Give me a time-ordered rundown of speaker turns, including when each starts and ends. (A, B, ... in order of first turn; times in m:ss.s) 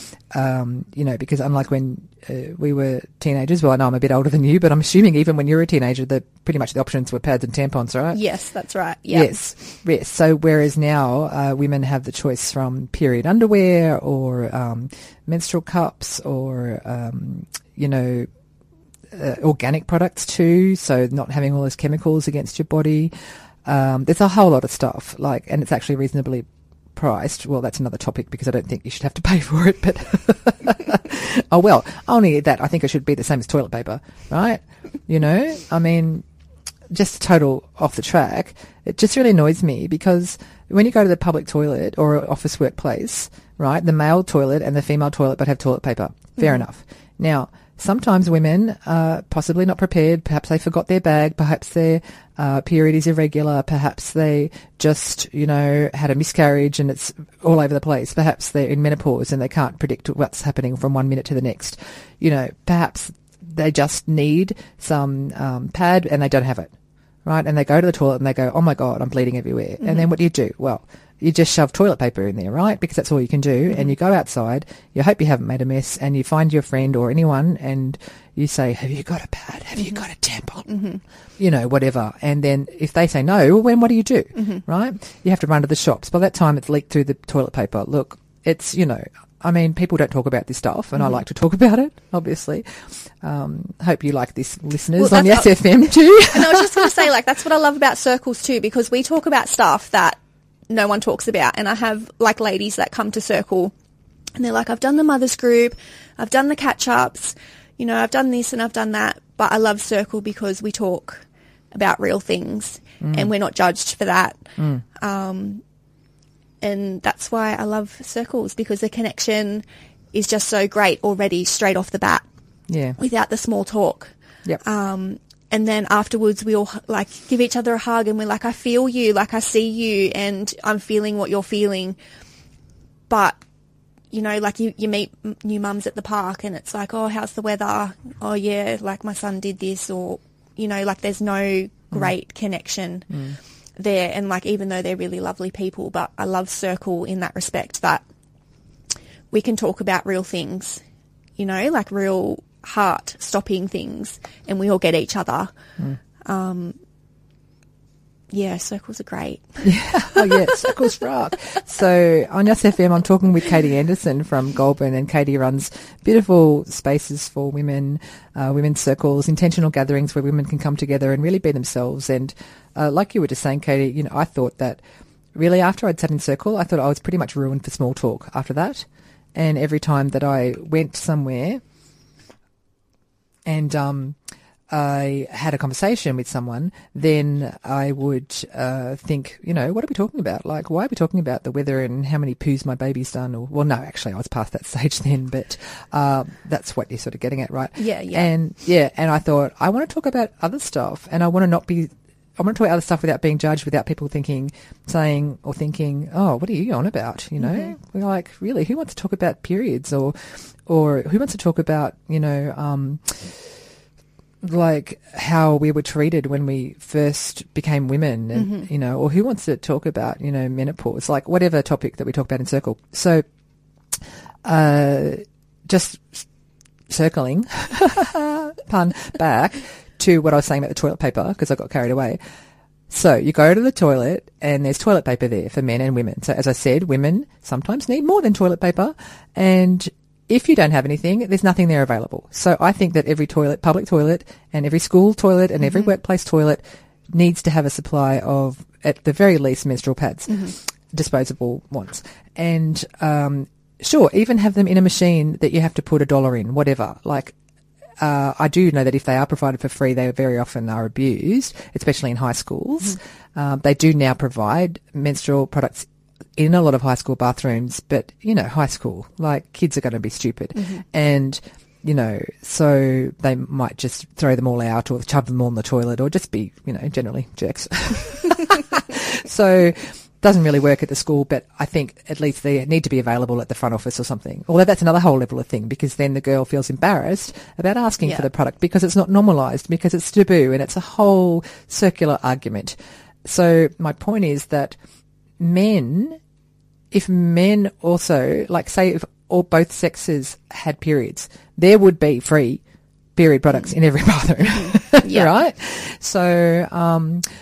0:00.3-0:08.2 A
0:08.1-0:09.3 B
0:09.1-0:18.3 A
0:19.1-0:23.1 A
0:23.6-0:36.2 A
0:36.9-1:06.7 A
1:07.2-1:20.8 A
1:20.7-1:21.0 B
1:21.4-1:37.0 A
1:34.9-1:35.6 B
1:36.3-1:43.7 B
1:44.4-1:54.4 B
1:53.0-1:53.3 A
1:54.6-1:54.8 A
1:55.0-1:55.6 B
1:56.6-2:02.2 B
2:02.7-2:03.0 A
2:03.0-2:12.0 B
2:13.1-2:13.4 B
2:14.1-2:23.1 B
2:23.1-2:23.4 A
2:23.8-2:28.0 B
2:29.3-2:30.8 B
2:31.4-2:35.5 B
2:36.2-2:36.8 B
2:38.3-2:39.6 B
2:39.6-2:54.8 A
2:40.1-2:40.7 B
2:55.3-3:01.6 A
3:03.4-3:04.2 A
3:04.7-3:33.5 A
3:17.8-3:18.3 B
3:27.4-3:27.7 B
3:34.4-3:43.2 A
3:38.3-3:38.6 B
3:44.4-3:46.2 A
3:46.9-3:52.2 A
3:52.9-4:06.6 A
4:07.1-4:17.3 A
4:18.0-4:54.8 A
4:55.4-4:56.2 A
4:56.9-5:02.6 A
5:03.2-5:07.2 A
5:04.5-5:05.3 B